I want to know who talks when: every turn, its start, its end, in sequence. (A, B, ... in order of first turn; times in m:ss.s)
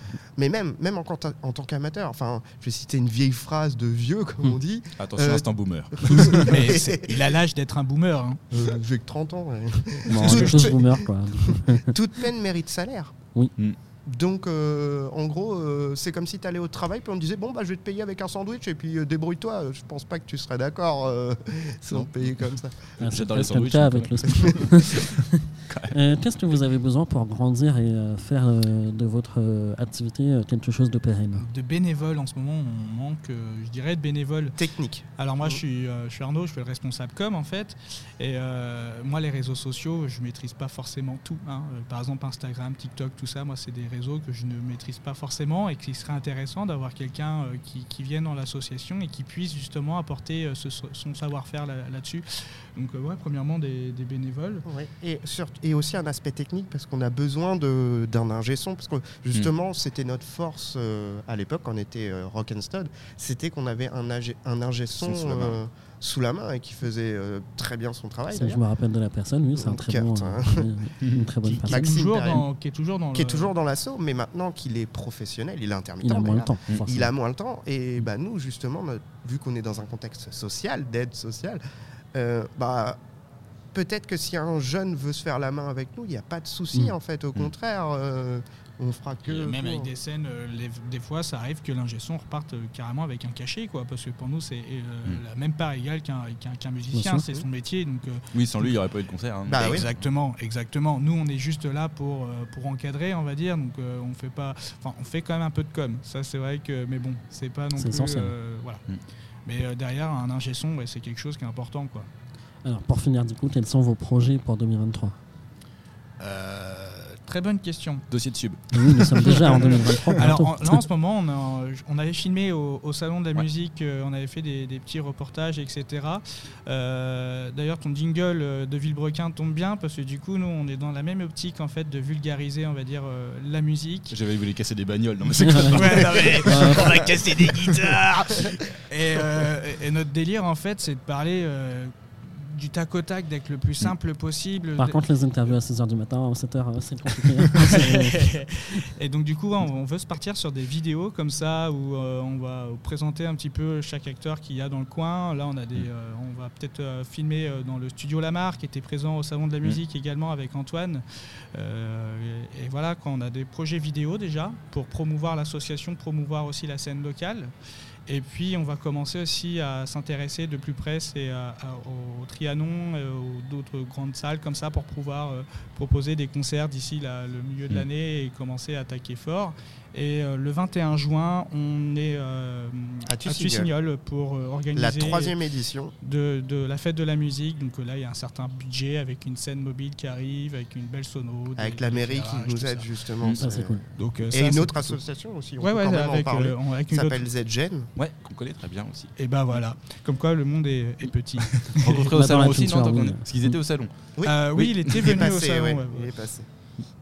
0:00.4-0:07.3 A
0:05.0-0:06.8 B
0:06.3-0:08.4 C
0:08.5-0:13.1 A
0:10.1-0:11.9 D
0:10.2-0:10.9 C
0:14.1-0:22.9 A
0:22.0-0:22.2 B
0:23.0-0:26.0 B
0:23.0-0:31.5 D
0:31.4-0:34.6 C
0:34.6-0:35.6 A
0:35.2-0:52.2 C
0:52.8-0:54.6 C
0:54.6-1:08.6 A
1:05.0-1:05.6 B
1:08.3-1:12.0 D
1:09.5-1:10.7 A
1:11.0-1:11.3 B
1:11.5-1:13.5 C
1:11.6-1:12.5 A
1:13.1-1:21.6 A
1:16.0-1:17.1 D
1:22.1-1:23.0 A
1:23.7-1:29.9 A
1:29.3-1:38.8 C
1:36.9-1:37.3 D
1:38.3-1:40.0 B
1:39.5-1:39.8 A
1:39.6-1:48.8 C
1:47.8-1:48.3 D
1:49.4-1:52.1 C
1:52.6-1:55.2 D
1:56.2-1:58.0 C
1:58.1-1:59.6 B
1:58.7-2:00.8 D
1:59.2-2:14.1 C
2:14.1-2:17.7 B
2:15.4-2:16.9 D
2:15.7-2:25.0 C
2:24.8-2:28.4 D
2:27.4-2:41.0 C
2:41.5-2:47.5 C
2:48.1-3:05.4 C
3:03.1-3:03.7 A
3:04.7-3:05.9 A
3:06.0-3:12.9 C
3:11.6-3:17.9 A
3:13.4-3:13.8 D
3:14.0-3:15.0 C
3:15.6-3:17.3 C
3:18.0-3:19.6 B
3:19.2-3:22.1 C
3:21.7-3:23.9 B
3:22.1-3:23.5 D
3:24.2-3:26.1 C
3:24.5-3:25.2 B
3:25.0-3:26.5 A